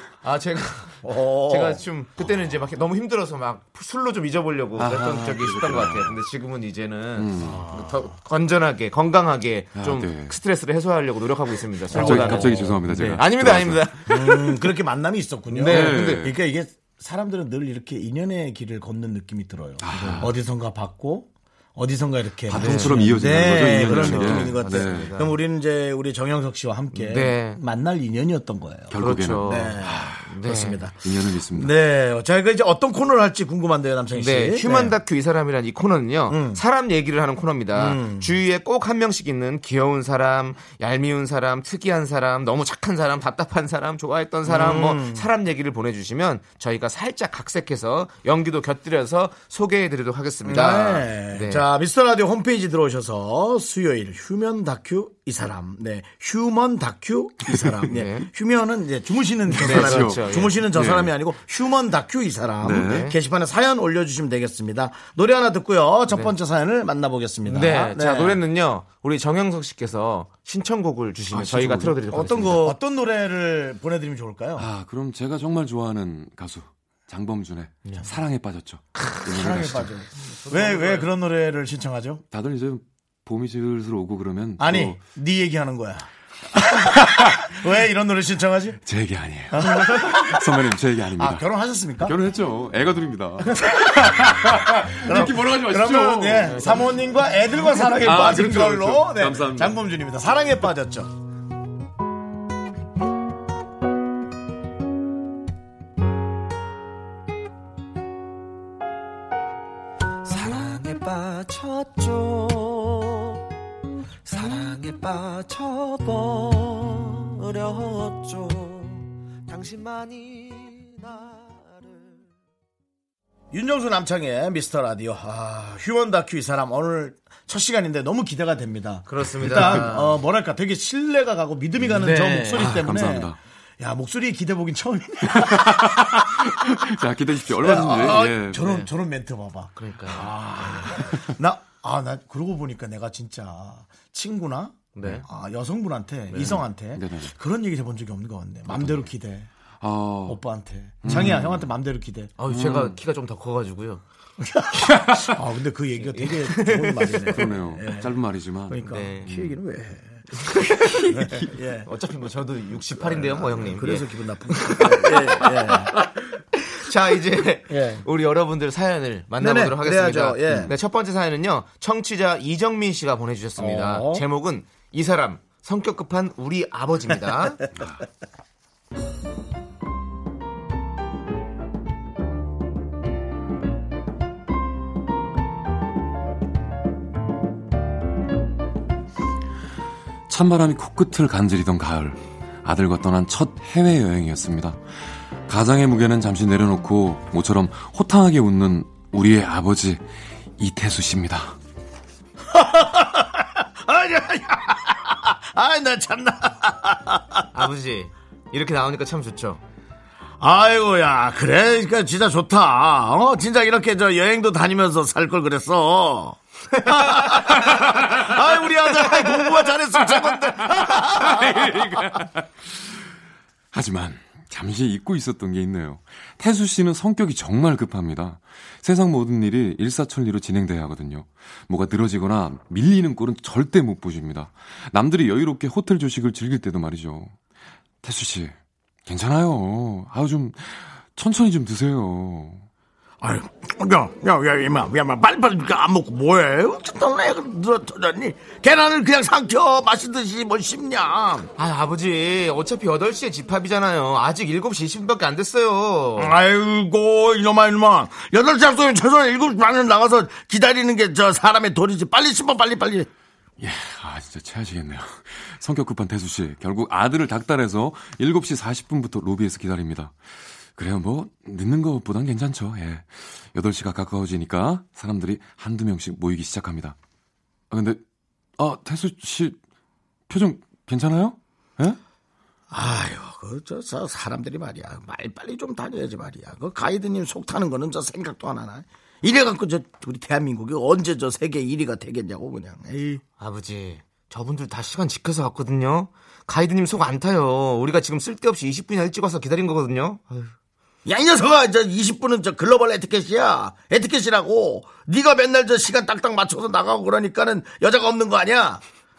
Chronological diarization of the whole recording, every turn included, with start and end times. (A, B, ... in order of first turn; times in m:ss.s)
0:00.2-0:14.7 A
0:01.0-0:01.8 B
0:04.8-0:06.2 C
0:07.2-0:07.7 C
0:07.4-0:07.9 B
0:09.8-0:10.4 C
0:11.9-0:13.2 B
0:11.9-0:14.0 C
0:14.1-0:35.0 B
0:15.5-0:16.3 A
0:15.6-0:16.4 C
0:19.8-0:20.3 C
0:19.9-0:20.3 A
0:22.5-0:25.2 C
0:22.5-0:25.3 A
0:26.9-0:27.6 A
0:28.9-0:30.2 C
0:29.0-0:30.9 A
0:31.0-0:31.8 C
0:34.1-0:51.6 A
0:36.3-0:36.6 B
0:37.7-0:38.3 B
0:44.4-0:45.3 B
0:50.4-1:08.4 B
0:57.9-0:58.3 A
0:59.6-1:00.6 A
0:59.6-1:01.1 C
1:02.6-1:03.1 C
1:02.7-1:03.2 A
1:07.5-1:12.8 A
1:11.3-1:12.4 C
1:12.1-1:14.7 B
1:14.6-1:20.0 C
1:19.0-1:19.2 A
1:19.2-1:22.2 B
1:20.2-1:21.1 A
1:22.3-1:25.0 C
1:24.6-1:28.8 B
1:26.9-1:27.5 C
1:28.8-1:31.5 C
1:29.5-1:32.2 B
1:32.0-1:37.0 C
1:33.4-1:41.1 B
1:37.7-1:39.8 C
1:50.2-1:53.4 D
1:54.2-2:02.3 D
2:03.5-2:16.5 B
2:09.1-2:10.2 A
2:11.9-2:12.8 A
2:12.6-2:13.4 C
2:15.3-2:18.8 C
2:17.6-2:29.5 B
2:18.6-2:18.9 A
2:19.8-2:20.3 A
2:20.7-2:21.3 C
2:25.0-2:25.3 A
2:26.4-2:27.3 C
2:28.7-2:29.1 C
2:29.8-2:30.4 C
2:30.3-2:32.3 B
2:31.0-2:31.7 C
2:32.4-2:34.0 A
2:32.4-2:33.0 C
2:34.4-2:38.2 B
2:35.0-2:35.3 C
2:36.0-2:37.4 A
2:37.3-2:39.6 C
2:38.7-2:41.9 B
2:38.9-2:39.3 A
2:40.4-2:41.3 A
2:41.8-2:46.1 A
2:43.0-2:45.9 B
2:46.6-2:57.6 A
2:47.7-2:48.1 B
2:49.4-2:50.7 B
2:53.6-2:54.2 B
3:10.3-3:14.8 C
3:15.5-3:20.0 C
3:20.6-3:21.6 C
3:22.5-3:27.5 B
3:27.5-3:29.6 A
3:30.4-3:41.9 B
3:36.8-3:37.9 A
3:39.0-3:39.4 A
3:40.8-3:43.0 C
3:43.7-3:57.4 C
3:58.0-4:02.6 C
4:03.2-4:11.5 B
4:11.6-4:16.4 A
4:16.2-4:23.1 B
4:23.6-4:30.2 C
4:30.7-4:37.0 C
4:37.7-4:38.0 C
4:38.6-4:39.6 C
4:40.3-4:42.0 C
4:42.7-4:53.2 B
4:53.4-5:00.5 A
5:01.0-5:08.8 B